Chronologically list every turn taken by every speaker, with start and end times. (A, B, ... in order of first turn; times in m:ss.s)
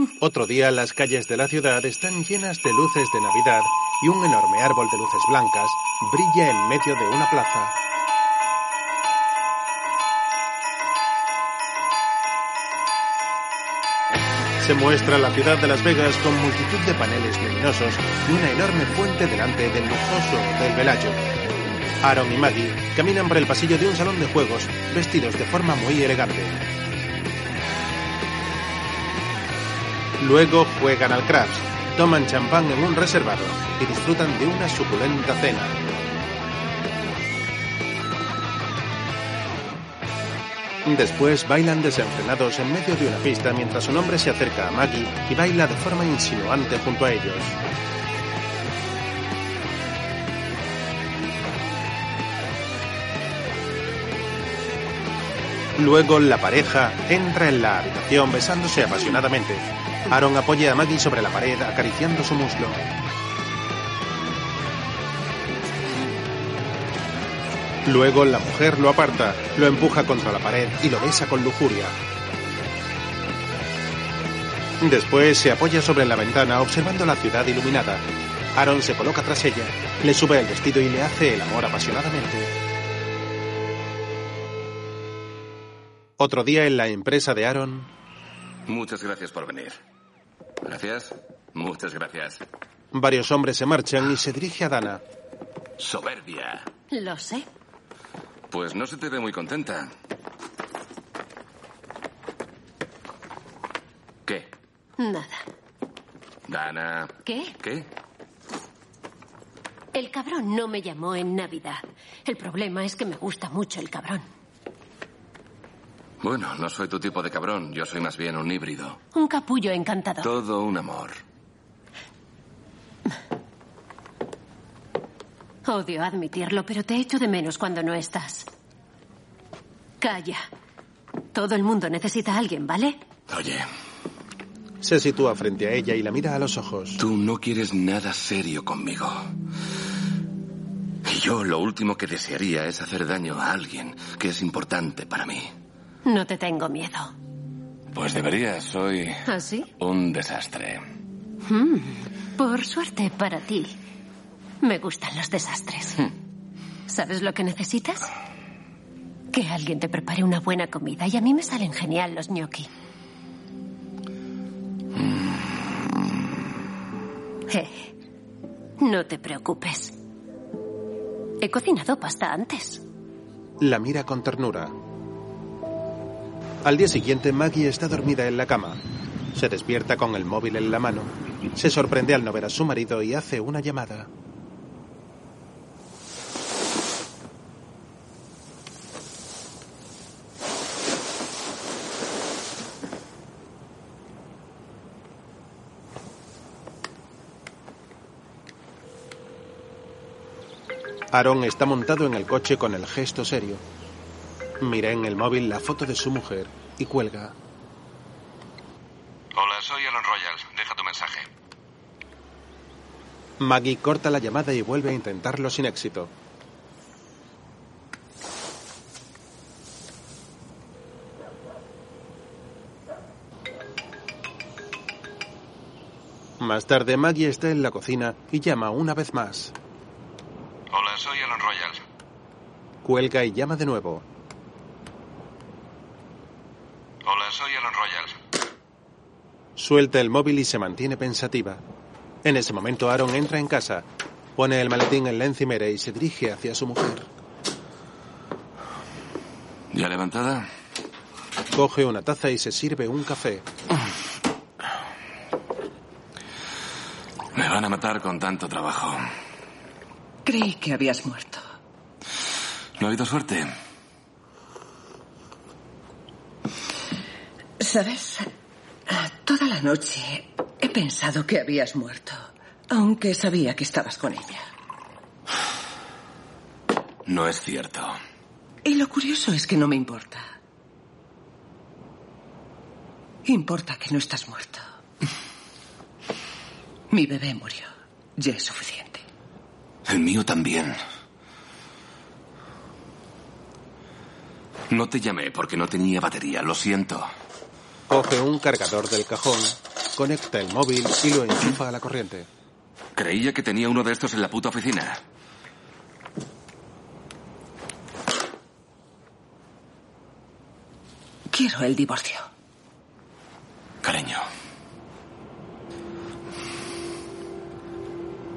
0:00.2-0:07.7 A
0:14.6-0:21.2 A
0:22.0-0:26.6 A
0:30.2-0:35.8 A
0:40.8-0:47.6 A
0:55.8-1:02.8 A
1:07.8-1:12.0 A
1:14.8-1:18.0 A
1:18.6-1:22.5 A
1:26.2-1:27.9 A
1:28.7-1:29.8 B
1:30.6-1:32.4 B
1:32.9-1:35.0 A
1:35.8-1:36.5 B
1:36.9-1:37.5 C
1:38.5-1:39.9 B
1:45.0-1:45.4 C
1:46.5-1:47.9 B
1:47.2-1:47.6 C
1:49.9-1:54.3 C
1:56.2-1:59.0 B
1:59.1-2:00.3 C
2:00.2-2:01.2 B
2:05.7-2:08.5 C
2:10.0-2:10.4 C
2:11.3-2:13.0 C
2:13.3-2:13.7 B
2:14.8-2:17.0 A
2:17.0-2:19.3 B
2:21.0-2:25.5 B
2:26.0-2:27.1 C
2:27.9-2:29.2 B
2:29.3-2:29.7 C
2:29.8-2:30.8 B
2:31.5-2:33.8 C
2:34.6-2:36.1 C
2:36.9-2:38.1 C
2:39.3-2:42.7 C
2:47.5-2:47.9 C
2:48.8-2:49.9 C
2:51.4-2:52.8 C
2:53.6-2:54.7 A
2:56.6-2:58.8 A
2:59.3-3:04.1 A
3:21.1-3:23.6 A
3:24.6-3:27.4 A
3:29.4-3:31.2 D
3:33.4-3:36.1 A
3:46.4-3:49.5 A
3:50.7-3:51.7 D
3:52.8-3:54.0 A
3:57.1-3:58.0 D
3:59.6-4:01.6 A
4:02.2-4:07.1 A
4:09.7-4:10.5 B
4:11.5-4:13.4 A
4:17.3-4:19.0 B
4:20.2-4:21.4 E
4:22.8-4:23.5 B
4:27.6-4:28.3 E
4:28.9-4:34.4 E
4:37.1-4:38.0 B
4:38.6-4:40.3 E
4:43.2-4:44.6 E
4:46.9-4:49.0 E
4:49.9-4:50.8 B
4:54.7-4:57.1 B
4:57.9-5:02.3 A
5:03.0-5:05.0 B
5:11.3-5:12.3 E
5:13.8-5:14.2 B